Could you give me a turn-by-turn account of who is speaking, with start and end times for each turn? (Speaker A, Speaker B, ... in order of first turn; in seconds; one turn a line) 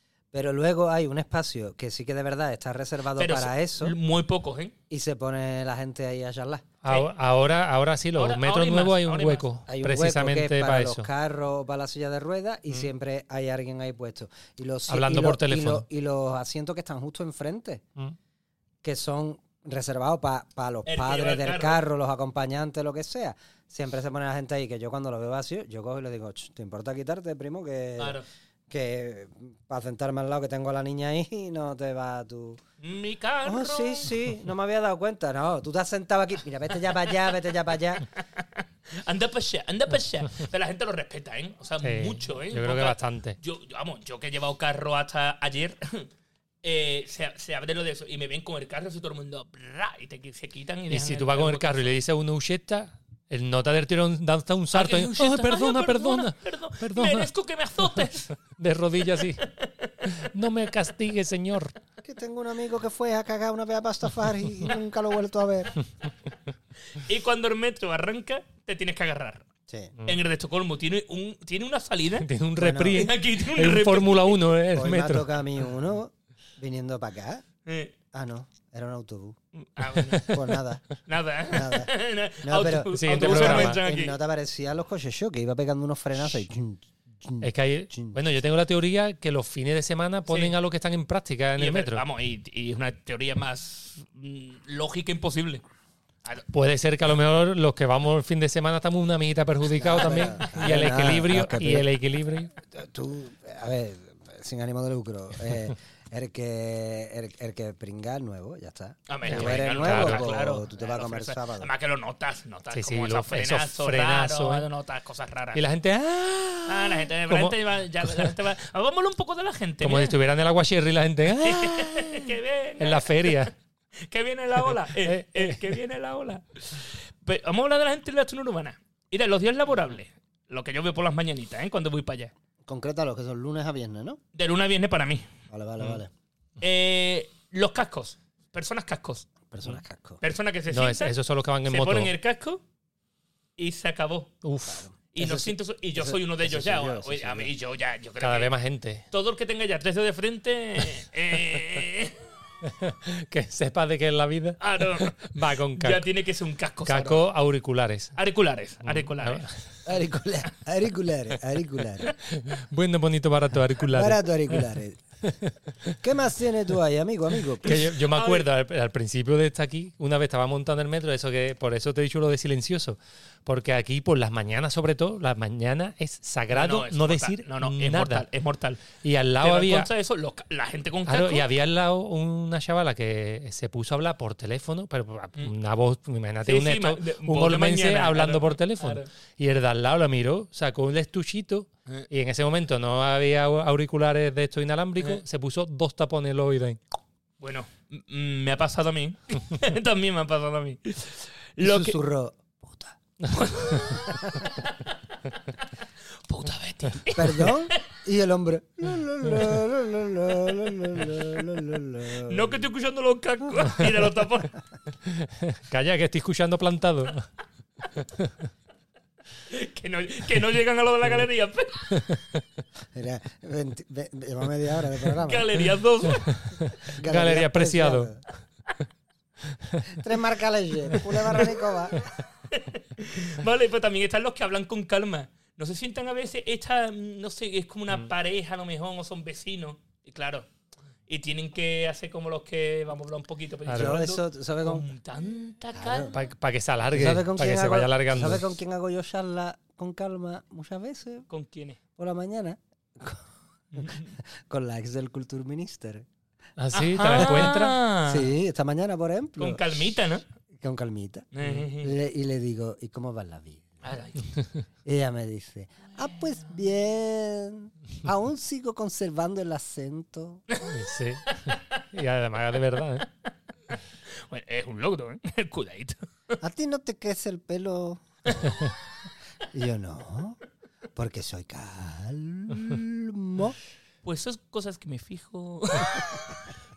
Speaker A: 0.3-4.0
Speaker B: 3.1-4.7
Speaker A: 4.9-6.7
Speaker C: 6.8-11.1
Speaker B: 8.2-9.4
Speaker A: 9.7-17.8
Speaker C: 14.9-15.8
Speaker A: 18.8-32.6
Speaker B: 20.9-21.8
Speaker B: 28.0-28.2
Speaker B: 32.8-34.1
Speaker A: 33.4-38.0
Speaker B: 38.4-46.1
Speaker C: 41.8-43.4
Speaker B: 46.6-51.8
Speaker C: 50.9-57.3
Speaker B: 54.7-58.3
Speaker C: 57.8-59.4
Speaker B: 59.4-59.9
Speaker C: 60.0-61.7
Speaker A: 62.0-65.8
Speaker B: 66.9-69.5
Speaker A: 69.7-69.9
Speaker B: 70.0-72.3
Speaker C: 72.2-75.3
Speaker A: 72.5-73.1
Speaker B: 72.9-74.4
Speaker A: 74.7-77.4
Speaker B: 77.6-77.9
Speaker A: 78.1-79.4
Speaker B: 79.5-80.3
Speaker C: 79.9-80.6
Speaker A: 80.3-80.8
Speaker B: 81.0-84.2
Speaker A: 81.5-81.9
Speaker A: 82.4-88.2
Speaker C: 82.9-83.8
Speaker C: 87.4-92.0
Speaker B: 90.3-90.5
Speaker B: 91.6-95.6
Speaker C: 96.5-102.5
Speaker A: 99.8-101.9
Speaker A: 102.6-111.7
Speaker B: 109.1-115.6
Speaker C: 109.2-110.4
Speaker C: 112.7-114.7
Speaker C: 115.5-118.3
Speaker B: 116.7-120.2
Speaker C: 119.8-123.5
Speaker B: 121.4-123.5
Speaker B: 124.0-132.3
Speaker C: 124.7-125.7
Speaker A: 132.6-134.2
Speaker B: 134.3-135.3
Speaker A: 135.5-136.1
Speaker B: 136.6-139.3
Speaker A: 139.5-140.2
Speaker B: 140.2-141.1
Speaker C: 140.7-142.1
Speaker B: 141.7-142.6
Speaker B: 143.6-144.3
Speaker C: 144.4-144.8
Speaker A: 144.7-147.5
Speaker B: 145.1-148.5
Speaker C: 148.2-149.0
Speaker B: 149.1-152.2
Speaker C: 152.6-156.1
Speaker B: 154.6-157.2
Speaker C: 156.8-158.1
Speaker B: 158.2-159.4
Speaker C: 158.8-159.6
Speaker A: 159.8-162.1
Speaker C: 162.2-164.6
Speaker A: 163.8-165.0
Speaker C: 165.2-166.0
Speaker A: 166.0-167.8
Speaker C: 167.6-178.2
Speaker B: 167.7-168.4
Speaker B: 176.5-178.8
Speaker C: 178.9-179.9
Speaker B: 179.4-181.5
Speaker C: 181.1-196.8
Speaker B: 186.4-189.1
Speaker B: 197.4-202.0
Speaker A: 201.6-203.0
Speaker B: 203.3-205.6
Speaker A: 203.9-204.4
Speaker B: 206.3-207.8
Speaker A: 207.1-212.6
Speaker B: 212.3-214.6
Speaker C: 215.1-217.3
Speaker C: 218.0-218.3
Speaker B: 219.5-222.2
Speaker C: 221.9-222.2
Speaker A: 222.9-225.5
Speaker B: 225.2-226.3
Speaker C: 226.3-228.1
Speaker A: 226.9-228.2
Speaker C: 229.5-230.0
Speaker A: 229.9-232.0
Speaker C: 230.9-231.4
Speaker B: 232.5-240.5
Speaker B: 241.1-246.2
Speaker C: 243.7-244.0
Speaker A: 243.7-244.9
Speaker A: 245.7-246.1
Speaker C: 246.1-248.4
Speaker A: 246.9-251.2
Speaker B: 251.3-251.8
Speaker A: 252.0-256.1
Speaker B: 253.7-254.1
Speaker C: 256.6-257.8
Speaker B: 256.7-258.3
Speaker A: 257.2-257.5
Speaker A: 258.1-259.6
Speaker B: 259.4-260.2
Speaker A: 260.6-263.7
Speaker B: 261.3-261.9
Speaker B: 263.8-264.4
Speaker A: 264.8-270.4
Speaker C: 270.6-273.1
Speaker B: 271.3-271.8
Speaker B: 274.2-276.4
Speaker A: 276.4-278.5
Speaker B: 278.3-278.6
Speaker A: 279.5-280.4
Speaker A: 280.9-283.6
Speaker B: 284.0-286.3